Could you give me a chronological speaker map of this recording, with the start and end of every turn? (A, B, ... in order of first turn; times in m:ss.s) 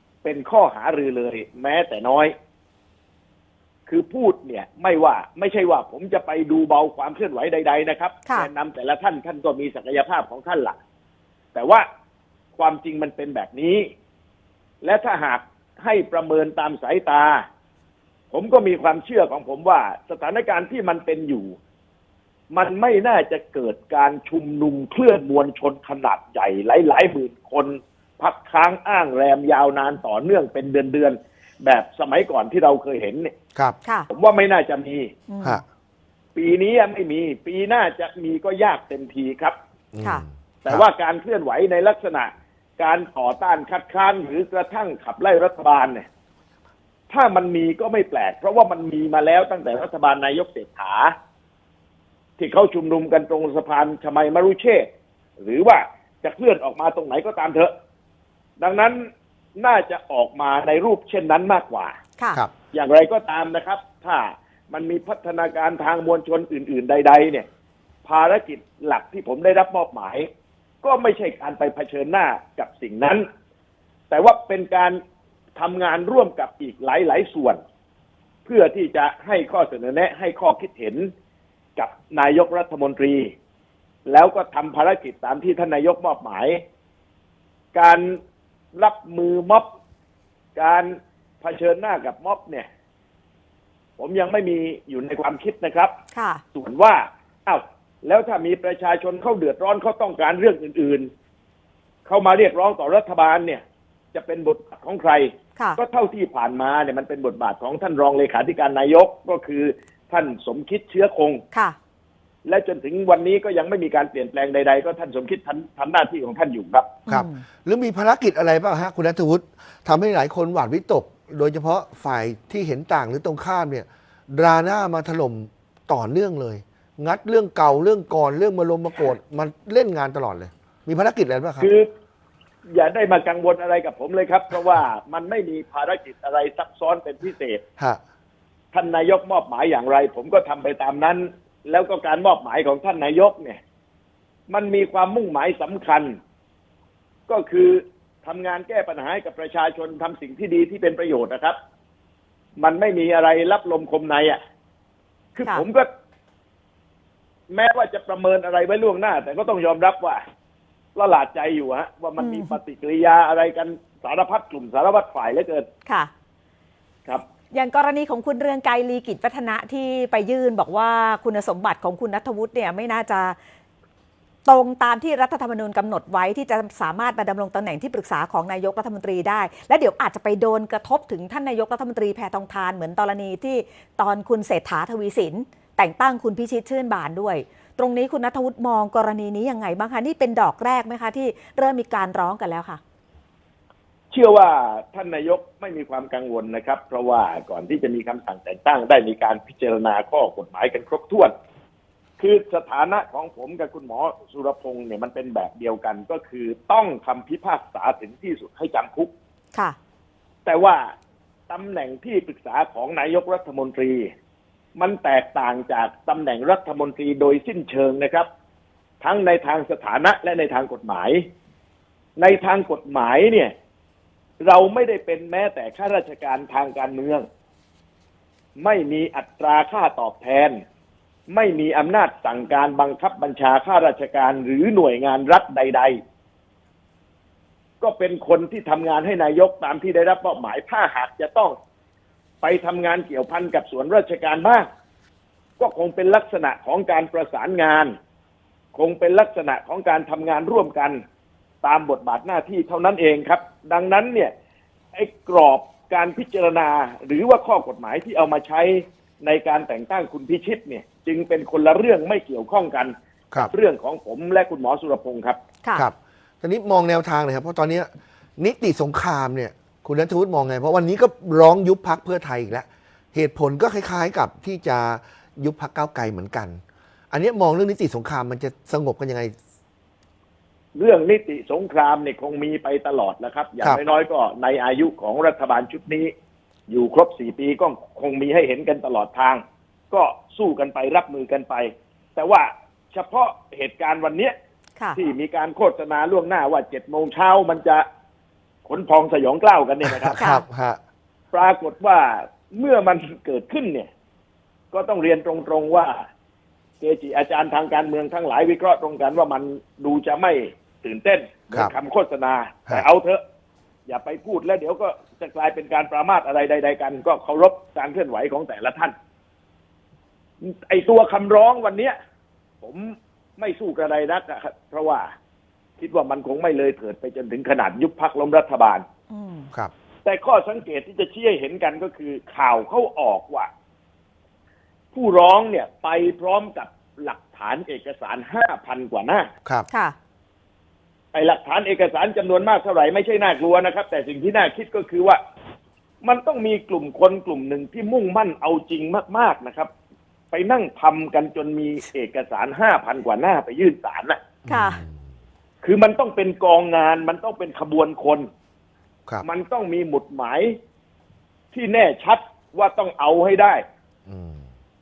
0:00.2-0:02.3 A
0:03.9-0:10.8 A
0:11.5-0:11.8 A
0:12.6-0:13.9 A
0:14.8-0:17.4 A
0:18.3-0:21.6 A
0:22.5-0:33.3 A
0:34.1-0:35.1 A
0:35.3-0:35.6 B
0:36.3-0:39.6 A
0:39.9-0:40.8 C
0:40.6-0:46.0 A
0:47.1-0:51.1 A
0:52.4-0:54.9 A
0:55.4-0:57.7 A
0:58.6-0:59.0 A
0:59.6-1:02.0 A
1:02.7-1:07.4 A
1:08.0-1:10.3 A
1:10.8-1:13.2 A
1:14.1-1:15.0 A
1:15.6-1:17.6 A
1:18.4-1:21.1 A
1:21.8-1:23.3 A
1:24.1-1:26.6 A
1:27.7-1:28.2 A
1:28.7-1:29.6 A
1:30.6-1:32.7 A
1:34.0-1:35.9 A
1:36.1-1:36.4 B
1:36.5-1:41.1 A
1:42.1-1:43.6 A
1:44.1-1:51.4 A
1:52.4-1:56.9 A
1:57.1-2:11.7 C
1:57.1-1:57.4 B
2:11.6-2:11.9 A
2:12.7-2:17.6 A
2:18.7-2:23.6 A
2:24.5-2:26.2 A
2:27.3-2:31.6 A
2:32.6-2:34.4 A
2:35.4-2:35.9 A
2:37.5-2:40.2 A
2:41.0-2:45.7 A
2:42.2-2:42.6 B
2:47.5-2:53.4 B
2:54.4-3:12.8 B
3:14.1-3:21.3 A
3:22.2-3:29.1 A
3:30.4-3:30.9 A
3:31.5-3:34.1 A
3:34.8-3:38.3 A
3:39.0-3:41.3 A
3:42.2-3:43.5 A
3:44.4-3:47.2 A
3:48.6-3:50.6 A
3:51.3-3:56.0 A
3:57.8-4:01.6 A
4:02.4-4:04.7 A
4:05.6-4:07.9 A
4:08.8-4:11.0 A
4:11.6-4:14.3 A
4:14.9-4:25.4 A
4:25.8-4:36.6 C
4:37.1-4:39.4 C
4:40.8-4:46.1 A
4:46.7-4:54.3 A
4:54.9-4:57.8 A
4:58.6-5:00.2 A
4:59.8-5:00.8 C
5:00.2-5:00.4 B
5:01.3-5:03.9 A
5:04.7-5:06.0 A
5:06.8-5:13.2 A
5:13.9-5:18.9 A
5:20.4-5:21.9 A
5:22.6-5:25.1 A
5:25.8-5:28.8 A
5:29.1-5:29.5 B
5:30.0-5:33.5 A
5:34.9-5:39.3 A
5:41.1-5:45.2 A
5:46.0-5:49.7 A
5:50.3-5:54.2 A
5:54.4-5:54.9 C
5:54.5-5:54.8 B
5:55.6-5:58.3 A
5:59.2-6:00.6 A
6:01.5-6:03.6 A
6:04.1-6:04.4 C